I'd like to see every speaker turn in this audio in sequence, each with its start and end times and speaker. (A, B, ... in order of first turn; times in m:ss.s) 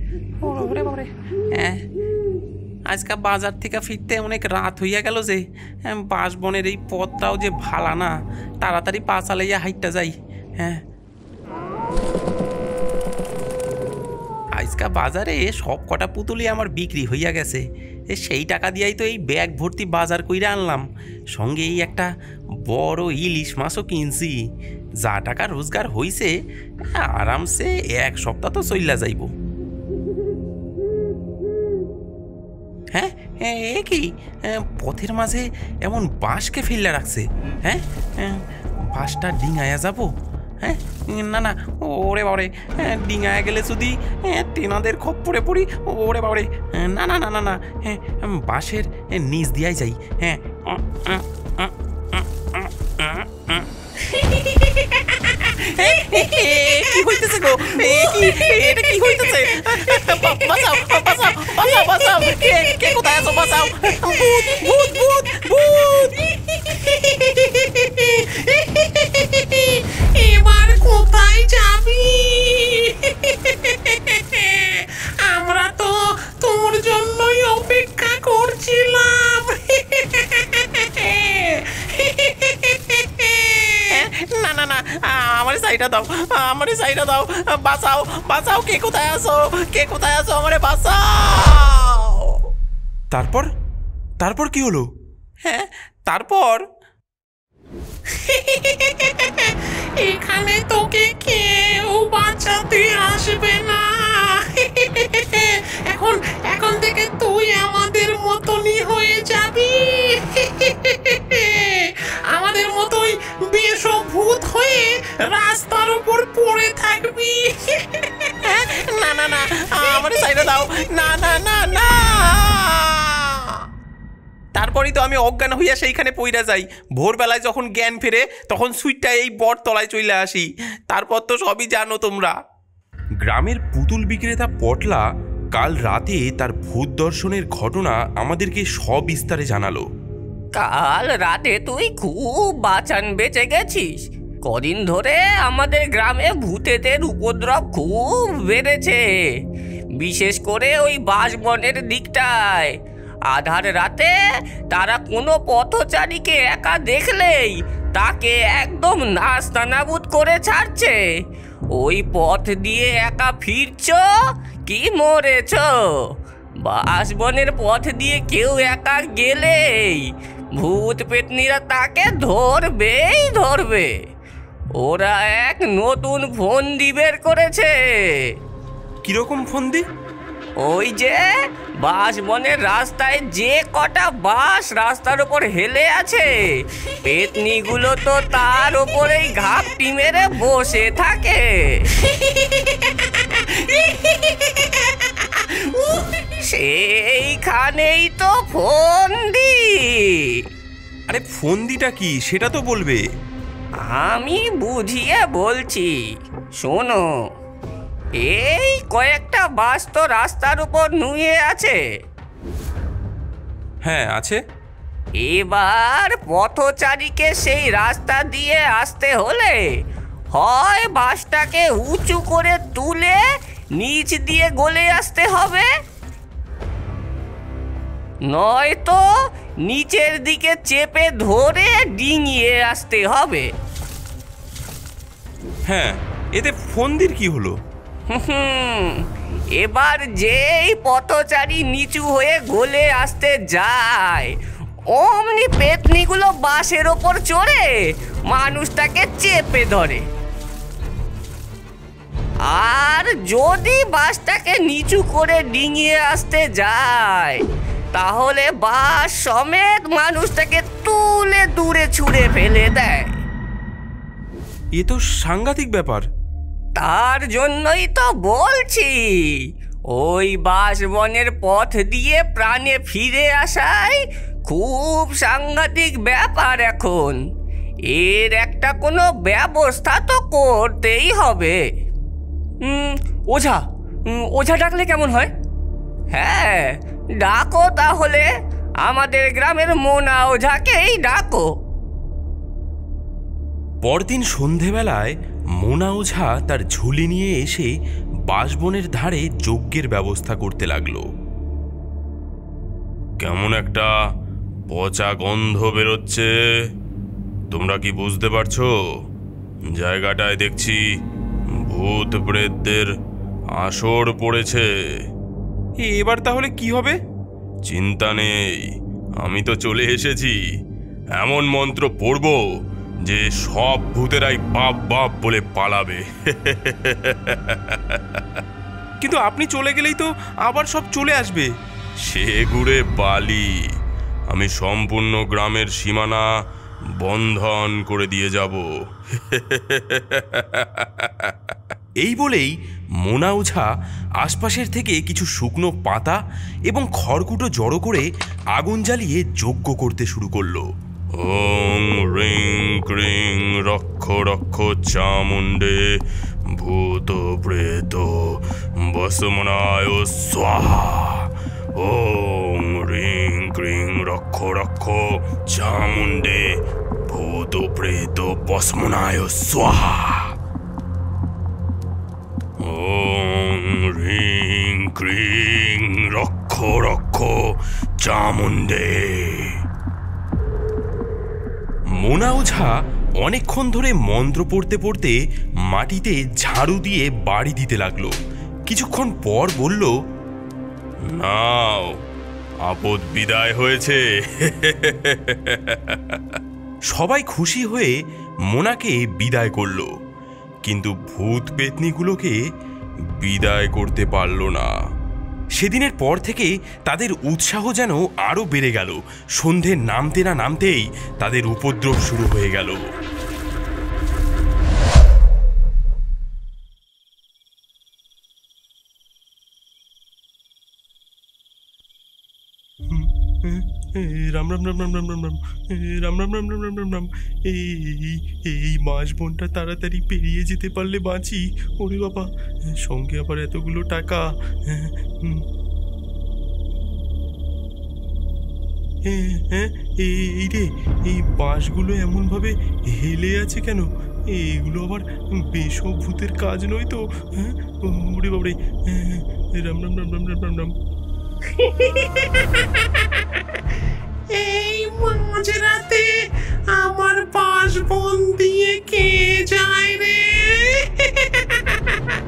0:00.4-0:01.8 A
0:02.9-0:10.8 A
0:14.6-0:22.1 A
0:22.7-0:24.4 A
0:25.0-0:26.3 A
0:27.0-0:29.3 A
0:32.9-0:38.4 A
0:38.9-0:40.1 A
0:40.6-0:53.7 A
0:54.0-0:54.6 B
0:55.6-1:06.2 A
0:57.9-0:59.5 B
1:01.5-1:01.8 B
1:06.3-1:23.8 B
1:23.9-1:32.4 A
1:33.1-1:33.4 C
1:34.2-1:34.9 C
1:35.4-1:36.6 A
1:38.1-1:58.3 B
1:58.5-2:03.6 A
2:04.6-2:12.3 A
2:13.2-2:15.0 C
2:15.5-2:19.8 C
2:20.5-2:23.9 D
2:24.4-2:29.0 D
2:30.0-2:32.7 D
2:33.3-2:34.1 D
2:34.7-2:41.0 D
2:41.7-2:44.0 D
2:44.7-2:46.1 D
2:46.6-2:53.9 D
2:54.8-2:58.3 D
2:59.0-2:59.8 C
3:00.6-3:01.2 D
3:01.8-3:06.3 D
3:07.0-3:11.9 D
3:12.0-3:16.2 B
3:16.5-3:20.4 D
3:21.1-3:23.0 C
3:23.9-3:26.0 D
3:26.6-3:27.1 D
3:28.2-3:31.8 D
3:33.8-3:34.4 C
3:35.2-3:39.6 D
3:40.3-3:43.2 D
3:43.8-3:45.7 D
3:48.2-3:49.0 D
3:49.6-3:53.5 D
3:55.7-3:57.5 C
3:58.1-3:59.0 D
3:59.6-4:04.3 D
4:04.9-4:07.8 D
4:08.3-4:10.0 D
4:12.5-4:17.4 D
4:17.9-4:23.1 D
4:24.8-4:26.0 C
4:26.8-4:37.2 D
4:37.9-4:41.6 D
4:42.6-4:45.3 D
4:46.1-4:48.3 D
4:48.8-4:51.5 D
4:53.8-4:57.7 C
4:58.3-5:01.0 C
5:03.2-5:03.9 C
5:04.7-5:06.3 C
5:07.5-5:08.7 C
5:09.7-5:10.8 C
5:11.6-5:12.9 C
5:13.6-5:14.7 C
5:15.8-5:17.0 C
5:17.6-5:18.7 C
5:19.2-5:20.4 C
5:21.2-5:22.4 C
5:23.0-5:28.2 C
5:29.0-5:31.5 C
5:32.0-5:33.6 C
5:34.3-5:36.2 C
5:37.0-5:38.6 C
5:39.2-5:41.5 C
5:42.0-5:42.5 C
5:43.0-5:43.6 C
5:44.2-5:46.2 C
5:46.7-5:50.6 C
5:51.2-5:55.8 C
5:56.6-6:10.3 C
6:12.6-6:17.4 C
6:18.0-6:19.5 C
6:22.0-6:25.1 C
6:25.7-6:28.2 C
6:28.7-6:29.9 C
6:31.2-6:31.9 C
6:32.6-6:36.4 C
6:36.9-6:37.9 C
6:38.5-6:39.9 C
6:40.6-6:42.4 C
6:43.2-6:44.7 C
6:45.6-6:52.8 C
7:02.9-7:15.4 C
7:19.1-7:30.7 C
7:31.6-7:32.8 B
7:34.3-7:36.1 B
7:36.7-7:42.0 B